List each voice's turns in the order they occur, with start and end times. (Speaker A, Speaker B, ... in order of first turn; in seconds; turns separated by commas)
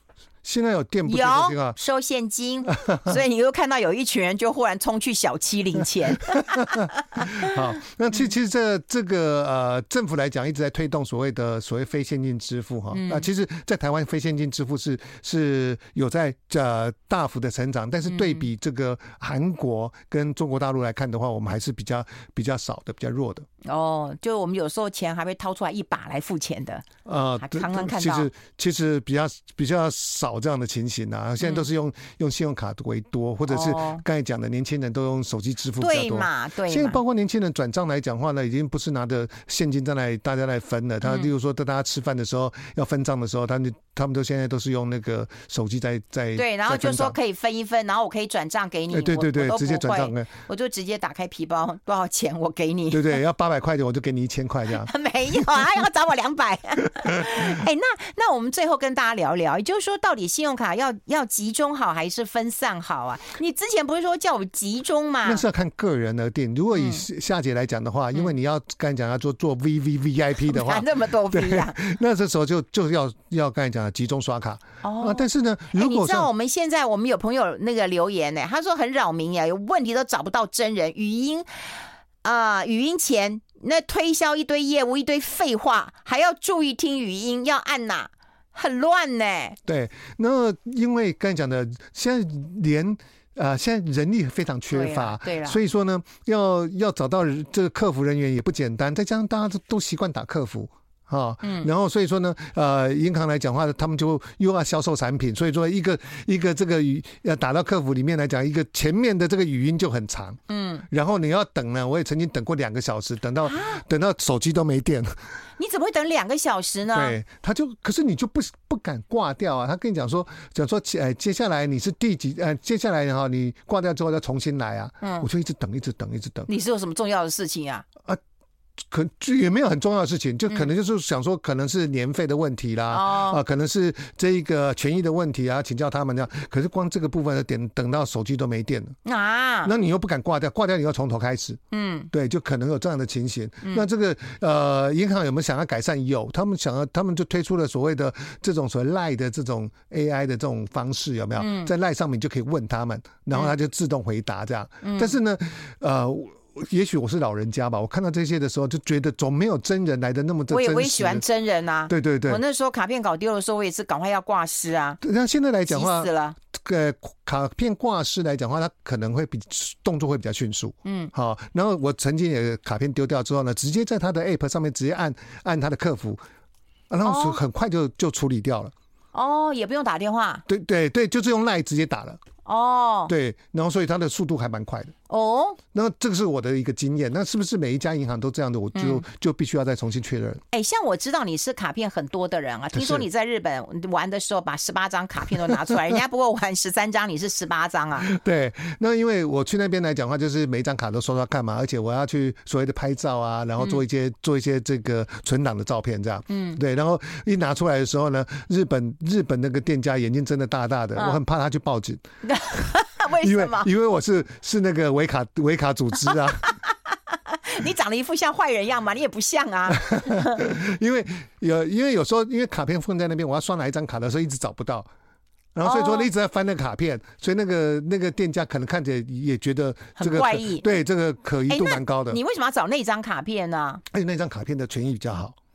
Speaker A: 0.4-1.8, Speaker B: 1.1-7.6, Speaker A: 2.8-3.2, Speaker A: 6.4-23.5, Speaker B: 12.9-13.3, Speaker B: 18.1-18.4, Speaker B: 23.6-26.9, Speaker A: 27.1-47.2, Speaker B: 27.4-28.3, Speaker B: 33.5-34.0, Speaker B: 35.8-37.0, Speaker B: 46.4-53.2, Speaker A: 48.9-50.3, Speaker A: 52.9-55.6, Speaker B: 54.8-65.5, Speaker A: 57.1-57.6, Speaker A: 65.2-76.3, Speaker B: 66.7-67.0, Speaker B: 70.5-71.8, Speaker B: 74.8-89.6, Speaker A: 89.7-115.2, Speaker B: 94.7-95.6, Speaker B: 101.4-101.7, Speaker B: 110.5-110.8, Speaker B: 113.5-113.8, Speaker B: 115.6-117.2, Speaker A: 116.9-126.5, Speaker B: 126.5-127.9, Speaker A: 128.9-139.0, Speaker B: 132.9-133.4, Speaker B: 139.1-139.7, Speaker A: 139.6-141.6, Speaker B: 141.7-142.1, Speaker A: 142.1-161.2, Speaker B: 151.4-151.7, Speaker B: 154.8-155.2, Speaker B: 160.5-165.0, Speaker A: 161.9-162.4, Speaker A: 165.0-176.2, Speaker B: 165.7-166.4, Speaker B: 170.8-171.1, Speaker A: 176.9-178.7, Speaker B: 177.1-177.4, Speaker B: 179.1-180.4, Speaker A: 180.5-182.2, Speaker B: 182.4-183.1, Speaker A: 183.1-184.9, Speaker B: 185.1-185.6, Speaker A: 185.7-190.4, Speaker B: 188.8-189.0, Speaker B: 190.5-198.1, Speaker A: 192.7-193.1, Speaker A: 195.4-195.8, Speaker A: 198.0-212.0, Speaker B: 206.3-206.6, Speaker B: 212.2-213.7, Speaker A: 213.2-216.5, Speaker B: 216.1-220.4, Speaker A: 219.7-224.9, Speaker A: 225.6-232.2, Speaker B: 225.6-226.1, Speaker B: 230.0-230.8, Speaker B: 231.5-233.8, Speaker A: 233.9-235.4